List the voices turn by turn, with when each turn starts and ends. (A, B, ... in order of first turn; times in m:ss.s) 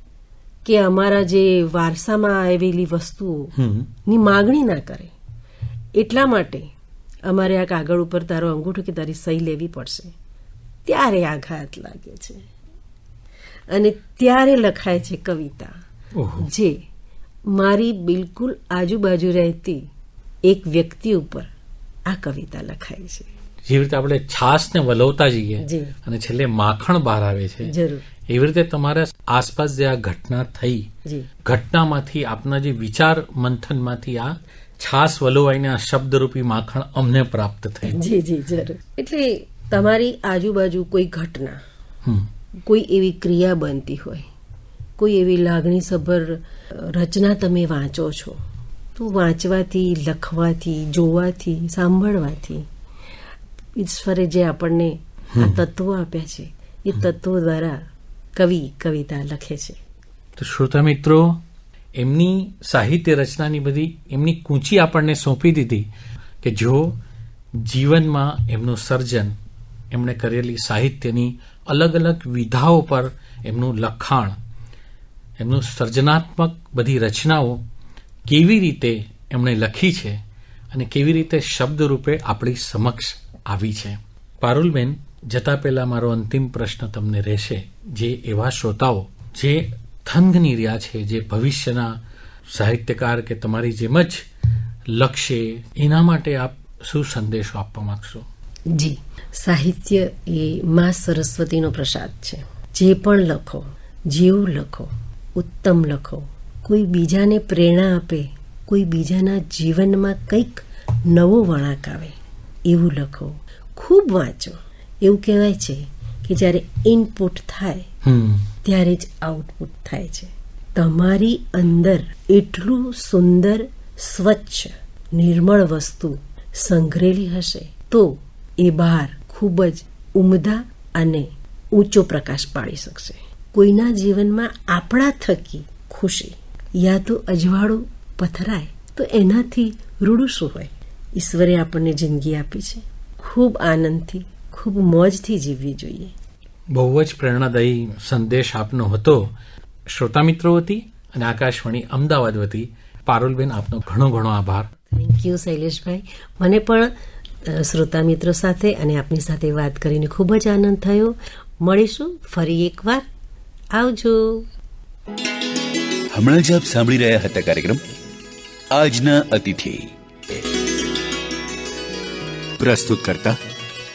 0:00.6-0:05.1 A
0:03.6-0:03.9 B
0:05.9-0:06.7 A
0:07.3-0:10.1 A
0:10.8-0:12.4 A
0:13.7-0:15.7 A
0:16.2-0:16.5 B
0:16.4-0:16.8 A
0:17.5-0:19.8 A
0:20.4-0:21.5 A
0:22.1-0:23.3 A
0:23.7-0:27.7 B
0:25.6-0:25.9 A
0:27.6-0:28.0 A
0:28.3-0:30.9 B
0:31.4-0:38.0 B
0:37.9-0:41.6 A
0:42.6-0:44.3 A
0:45.0-0:48.4 A
0:49.0-0:52.7 A
0:53.8-0:57.8 A
0:55.3-0:55.6 B
0:58.4-0:59.8 A
1:00.4-1:01.4 B
1:02.0-1:05.9 B
1:06.4-1:06.9 B
1:07.5-1:09.3 B
1:09.9-1:14.4 B
1:15.4-1:17.6 B
1:18.3-1:20.2 B
1:20.7-1:32.0 B
1:32.5-1:34.3 B
1:34.9-1:38.2 B
1:38.7-1:57.9 A
1:58.0-1:58.5 B
1:58.6-2:26.1 A
2:26.7-2:29.3 B
2:29.9-2:34.7 B
2:34.9-2:36.9 A
2:37.4-2:43.0 A
2:43.7-2:44.5 A
2:46.1-2:47.8 C
2:48.7-2:49.9 C
2:52.6-2:53.4 C